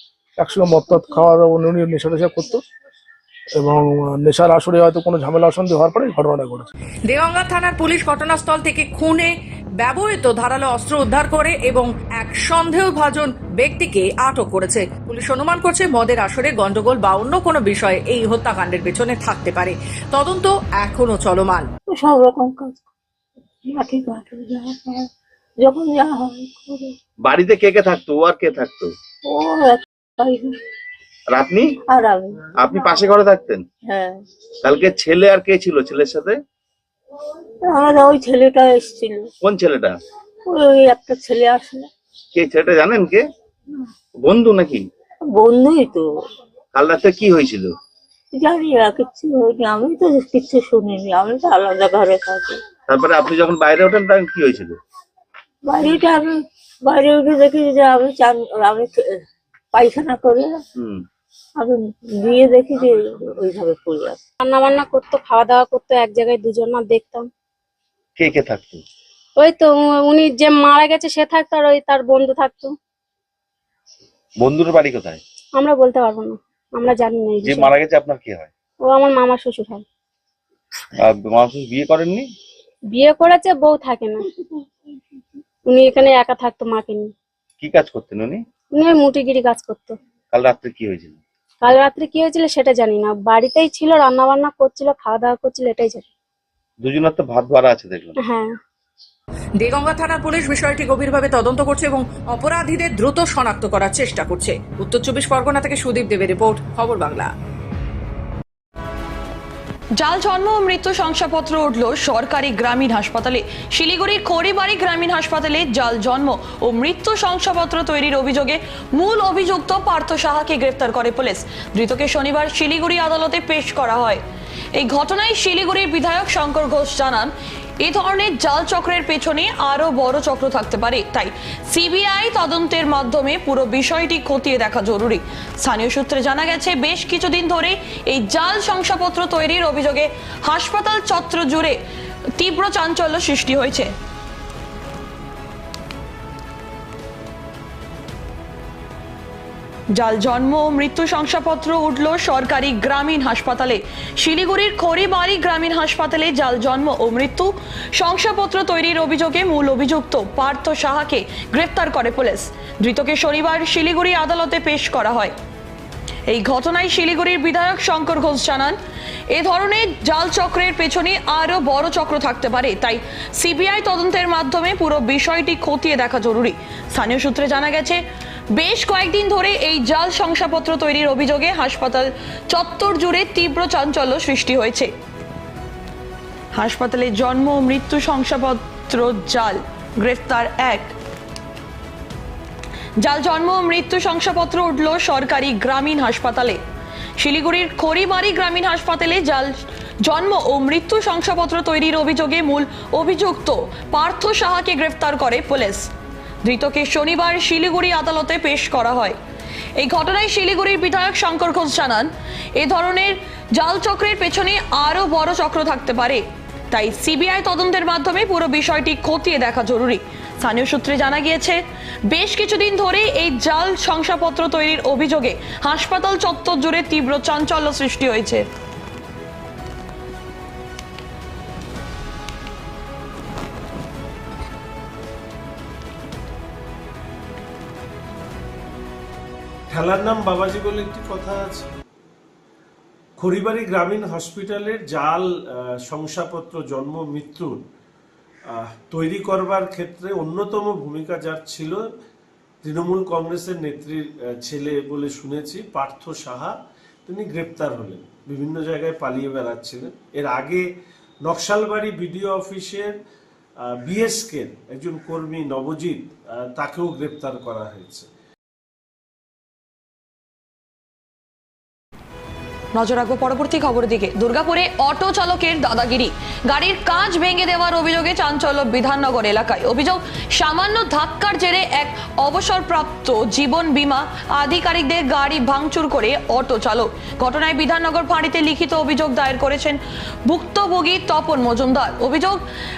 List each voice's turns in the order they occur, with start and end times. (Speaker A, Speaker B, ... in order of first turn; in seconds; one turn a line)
Speaker A: 0.4-2.6
Speaker A: 3.5-6.7
Speaker B: 7.1-21.7
Speaker C: 21.9-22.8
Speaker C: 23.6-26.9
Speaker D: 27.2-28.9
Speaker C: 29.2-30.6
Speaker D: 31.3-31.7
Speaker C: 31.9-32.5
Speaker D: 32.6-33.6
Speaker C: 33.9-34.2
Speaker D: 34.6-36.4
Speaker C: 37.6-39.3
Speaker D: 39.4-40.0
Speaker C: 40.5-41.9
Speaker D: 42.3-43.2
Speaker D: 44.2-44.8
Speaker C: 45.3-46.0
Speaker D: 46.7-47.7
Speaker C: 48.3-52.6
Speaker D: 52.9-54.8
Speaker C: 55.6-60.6
Speaker C: 61.6-64.2
Speaker E: 64.4-67.3
Speaker D: 68.2-68.8
Speaker E: 69.3-72.8
Speaker D: 74.4-75.2
Speaker E: 75.5-77.7
Speaker D: 77.4-78.5
Speaker E: 78.8-79.8
Speaker D: 81.0-82.3
Speaker E: 82.9-84.3
Speaker E: 85.6-87.1
Speaker D: 87.6-88.4
Speaker E: 88.7-90.0
Speaker D: 90.3-91.2
Speaker E: 91.6-96.1
Speaker D: 96.8-98.2
Speaker E: 98.2-98.6
Speaker B: 99.6-107.3
Speaker F: 110.0-124.2
Speaker F: 124.7-141.8
Speaker F: 142.4-143.9
Speaker F: 149.9-165.3
Speaker F: 166.3-168.8
Speaker F: 169.3-178.0
Speaker F: 178.5-184.9
Speaker F: 186.5-190.9
Speaker F: 193.0-196.6
Speaker F: 197.2-205.9
Speaker F: 206.4-209.2
Speaker F: 209.8-228.4
Speaker G: 239.7-241.7
Speaker G: 243.2-245.3
Speaker G: 245.8-247.6
Speaker G: 248.9-251.9
Speaker G: 252.6-256.5
Speaker G: 257.1-260.6
Speaker G: 261.2-263.0
Speaker G: 263.8-268.1
Speaker F: 272.7-292.4